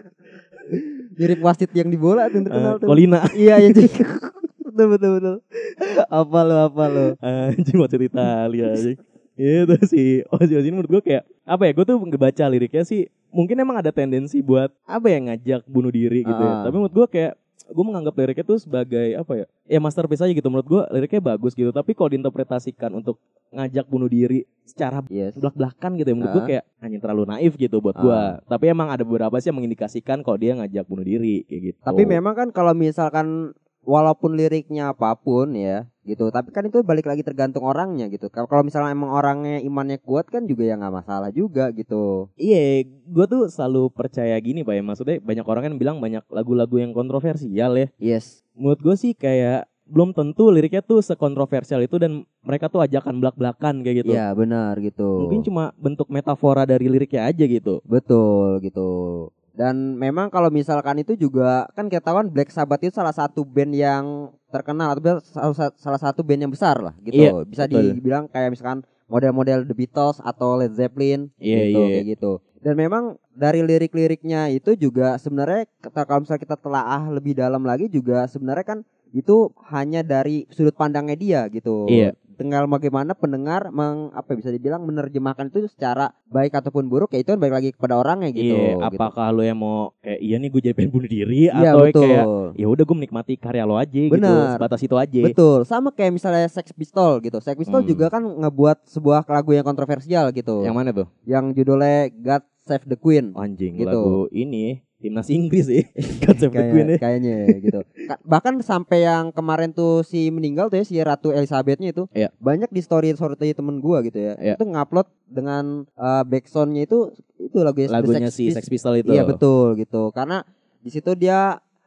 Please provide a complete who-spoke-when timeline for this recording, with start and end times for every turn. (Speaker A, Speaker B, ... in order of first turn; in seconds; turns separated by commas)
Speaker A: 0.7-7.2, Speaker B: 2.5-3.9, Speaker B: 7.2-32.2, Speaker A: 16.2-16.7, Speaker A: 25.1-25.4, Speaker A: 26.2-26.5, Speaker A: 27.9-28.3, Speaker A: 31.9-33.3, Speaker A: 33.9-42.2, Speaker B: 42.4-47.9, Speaker A: 48.0-48.4, Speaker B: 48.6-54.2, Speaker A: 54.0-55.4, Speaker B: 55.2-57.8, Speaker A: 57.9-89.1, Speaker B: 67.1-68.0, Speaker B: 71.4-72.0, Speaker B: 81.9-82.1, Speaker B: 88.3-95.3, Speaker A: 91.5-92.5, Speaker A: 94.1-94.7, Speaker A: 95.2-100.7, Speaker B: 97.7-98.0, Speaker B: 100.6-101.1, Speaker A: 101.3-104.2, Speaker B: 103.3-107.7, Speaker A: 106.3-121.5, Speaker B: 117.9-119.4